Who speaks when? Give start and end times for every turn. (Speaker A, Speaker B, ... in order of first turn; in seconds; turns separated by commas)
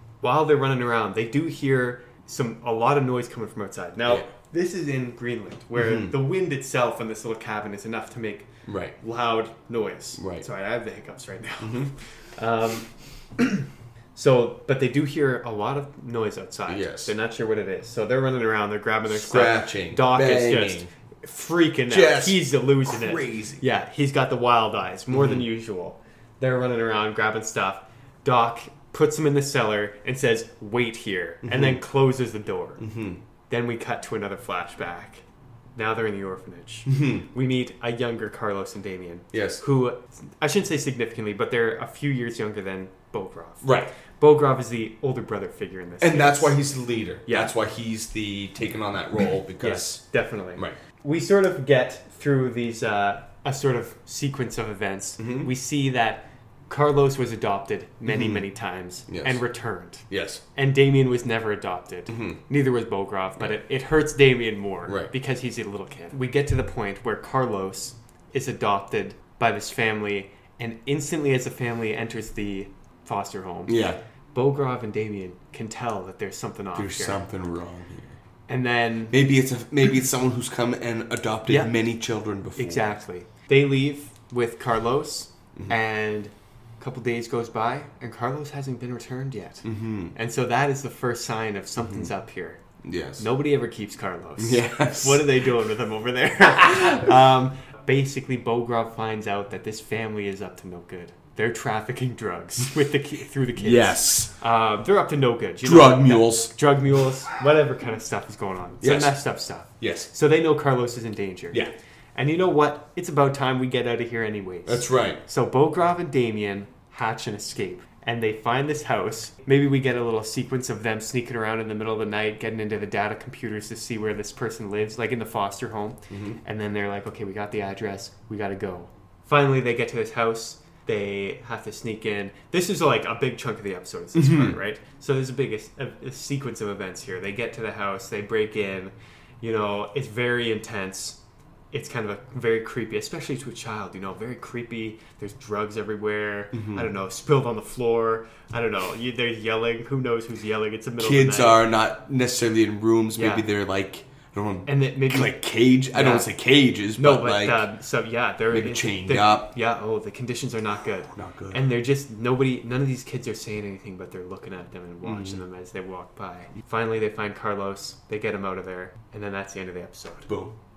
Speaker A: 0.2-8.5, Speaker B: 5.8-6.2, Speaker B: 8.7-9.0, Speaker A: 9.0-32.9, Speaker B: 10.2-10.5, Speaker B: 11.6-11.9, Speaker B: 16.7-17.1, Speaker B: 19.1-20.9, Speaker B: 21.9-23.6, Speaker B: 25.1-25.4, Speaker B: 31.4-31.8, Speaker B: 32.8-33.2, Speaker A: 33.5-35.2, Speaker A: 35.8-46.6, Speaker B: 36.9-37.2, Speaker B: 39.3-39.6, Speaker B: 43.6-43.9, Speaker B: 46.0-50.0, Speaker A: 47.3-47.5, Speaker A: 49.6-73.8, Speaker B: 55.2-55.5, Speaker B: 58.1-58.5, Speaker B: 59.1-59.4, Speaker B: 60.1-60.4, Speaker B: 62.1-62.4, Speaker B: 64.9-65.1, Speaker B: 73.7-74.0, Speaker A: 74.3-77.2, Speaker B: 76.8-78.2, Speaker A: 78.5-79.2, Speaker B: 79.1-82.9, Speaker A: 81.5-81.8, Speaker A: 82.6-92.6, Speaker B: 89.7-90.1, Speaker B: 92.8-93.2, Speaker A: 93.2-111.6, Speaker B: 94.4-95.2, Speaker B: 103.6-104.3, Speaker B: 105.6-106.5, Speaker B: 108.8-109.2, Speaker B: 109.8-110.1, Speaker A: 112.2-141.2, Speaker B: 114.7-115.2, Speaker B: 126.1-126.4, Speaker B: 134.2-134.6, Speaker A: 141.7-151.6, Speaker B: 146.5-146.9, Speaker B: 151.0-157.7, Speaker A: 153.2-153.5, Speaker A: 154.7-156.3, Speaker A: 157.0-170.3, Speaker B: 158.5-159.5, Speaker B: 161.1-161.7, Speaker B: 165.0-165.4, Speaker B: 170.3-170.5